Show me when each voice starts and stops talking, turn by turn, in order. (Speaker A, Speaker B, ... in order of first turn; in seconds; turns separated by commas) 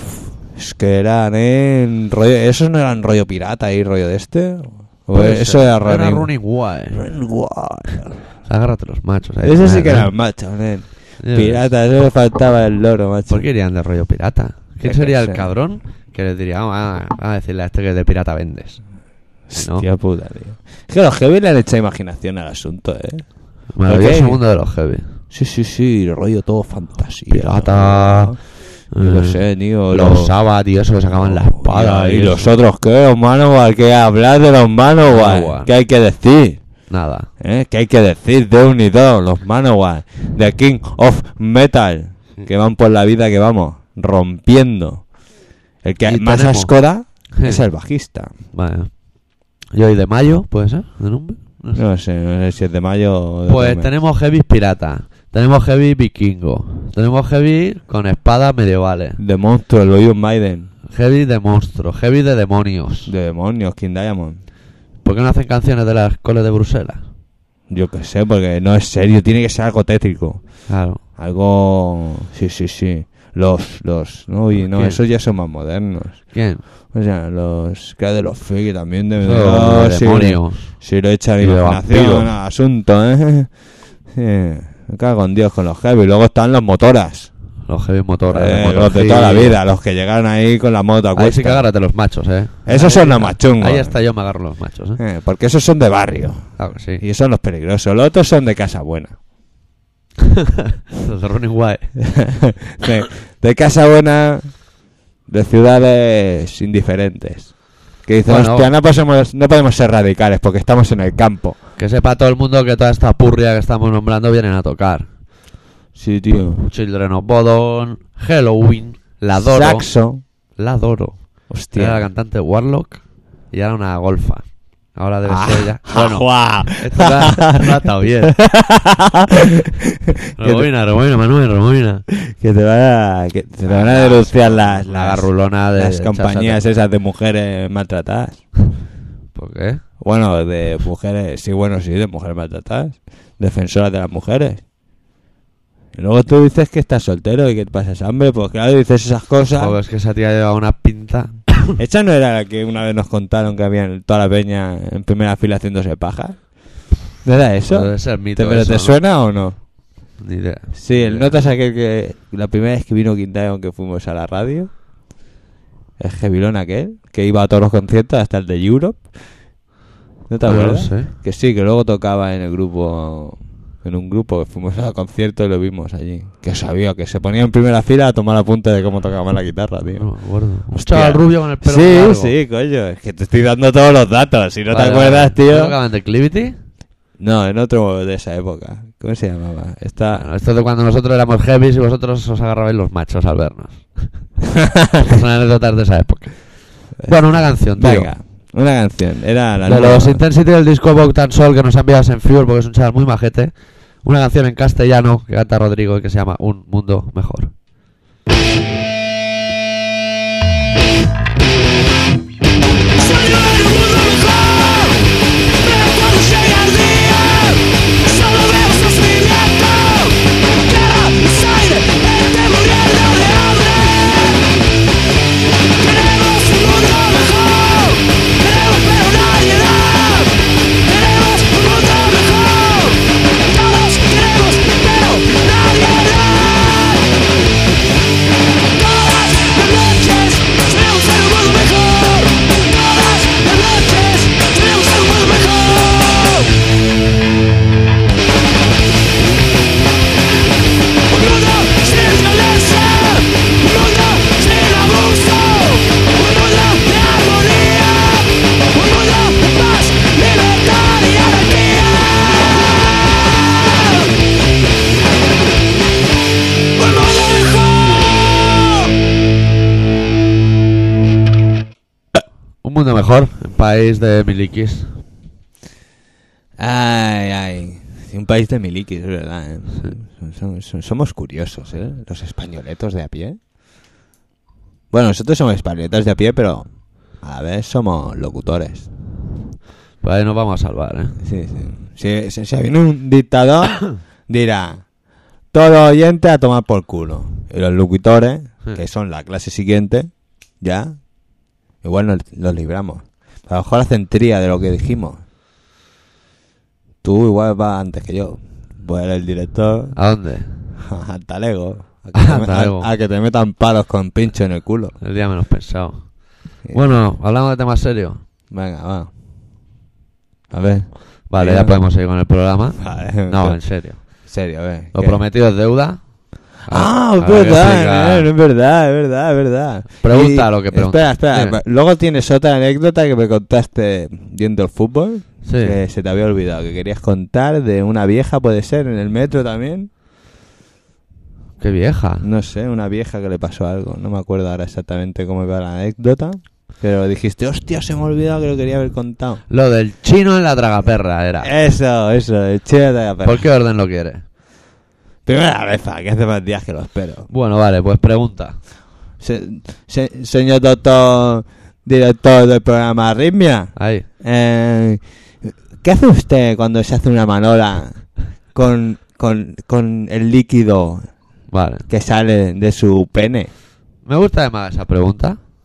Speaker A: 0.3-6.3, Speaker B: 5.1-7.0, Speaker A: 6.9-8.3, Speaker B: 8.4-10.1, Speaker A: 9.4-13.4, Speaker B: 11.2-11.7, Speaker B: 13.3-18.8, Speaker A: 14.8-15.5, Speaker A: 19.5-24.4, Speaker B: 19.6-19.8, Speaker B: 23.7-25.1, Speaker A: 25.3-30.3, Speaker B: 27.3-32.5, Speaker A: 31.1-36.6, Speaker B: 35.0-35.7, Speaker B: 36.9-37.3, Speaker A: 37.4-45.1, Speaker A: 45.8-48.3, Speaker B: 46.0-46.7, Speaker B: 47.3-47.6, Speaker B: 48.5-49.1, Speaker B: 49.6-51.8, Speaker A: 51.7-53.9, Speaker B: 53.5-59.2, Speaker A: 59.2-60.7, Speaker B: 60.9-63.1, Speaker A: 63.0-64.4, Speaker B: 65.0-67.0, Speaker A: 67.7-87.3, Speaker B: 70.7-71.0, Speaker B: 74.5-75.0, Speaker B: 76.3-76.6, Speaker B: 79.2-80.8, Speaker B: 81.4-82.3, Speaker B: 87.7-89.6, Speaker A: 88.3-91.6, Speaker B: 91.1-95.0, Speaker A: 92.7-94.0, Speaker A: 95.0-99.2, Speaker B: 96.6-97.0, Speaker B: 100.9-102.0, Speaker A: 102.0-104.7, Speaker A: 105.3-111.6, Speaker B: 108.2-108.7, Speaker B: 111.8-115.1, Speaker A: 115.9-116.6, Speaker B: 116.3-119.9, Speaker A: 119.3-120.2, Speaker B: 120.5-128.4, Speaker A: 121.5-122.0, Speaker A: 125.3-127.7, Speaker A: 128.2-130.7, Speaker B: 130.4-132.0, Speaker A: 132.1-138.5, Speaker B: 133.6-136.6, Speaker B: 139.3-139.8, Speaker A: 140.0-144.6, Speaker A: 145.9-149.8, Speaker B: 149.6-151.8, Speaker A: 151.8-159.6, Speaker B: 157.7-159.0, Speaker B: 160.2-161.3, Speaker A: 160.7-164.7, Speaker A: 166.0-169.1, Speaker A: 170.3-180.1, Speaker B: 170.4-171.1, Speaker B: 180.0-182.3, Speaker A: 180.7-185.8, Speaker B: 184.7-186.6, Speaker A: 187.2-190.3, Speaker B: 190.1-194.3, Speaker B: 195.0-198.1, Speaker A: 197.0-200.2, Speaker B: 199.7-207.5, Speaker C: 216.7-217.2, Speaker C: 218.1-223.9, Speaker C: 226.1-229.7, Speaker C: 231.2-232.2, Speaker C: 233.9-236.4, Speaker C: 244.1-244.7, Speaker C: 251.6-253.2, Speaker C: 254.1-254.9, Speaker C: 259.9-261.6, Speaker B: 272.6-274.9, Speaker A: 276.6-283.4, Speaker A: 284.9-286.7, Speaker A: 287.2-288.9, Speaker B: 290.0-291.2, Speaker A: 291.2-294.9, Speaker A: 295.5-301.1, Speaker A: 301.8-305.2, Speaker A: 307.0-309.9, Speaker B: 309.9-310.7, Speaker A: 310.7-314.9, Speaker B: 312.1-312.9, Speaker B: 315.0-318.2, Speaker A: 318.5-319.1, Speaker A: 320.5-321.8, Speaker B: 321.3-324.3, Speaker A: 322.8-325.2, Speaker B: 324.9-328.3, Speaker A: 326.7-339.9, Speaker B: 330.0-331.6, Speaker B: 335.4-335.8, Speaker B: 341.6-342.2, Speaker A: 342.2-349.4, Speaker B: 349.5-351.5, Speaker A: 351.4-353.4, Speaker B: 353.2-354.2, Speaker A: 355.2-357.3, Speaker B: 357.3-358.6, Speaker A: 359.2-371.1, Speaker B: 363.8-364.1, Speaker B: 371.5-371.9, Speaker A: 371.9-373.5, Speaker B: 374.0-375.4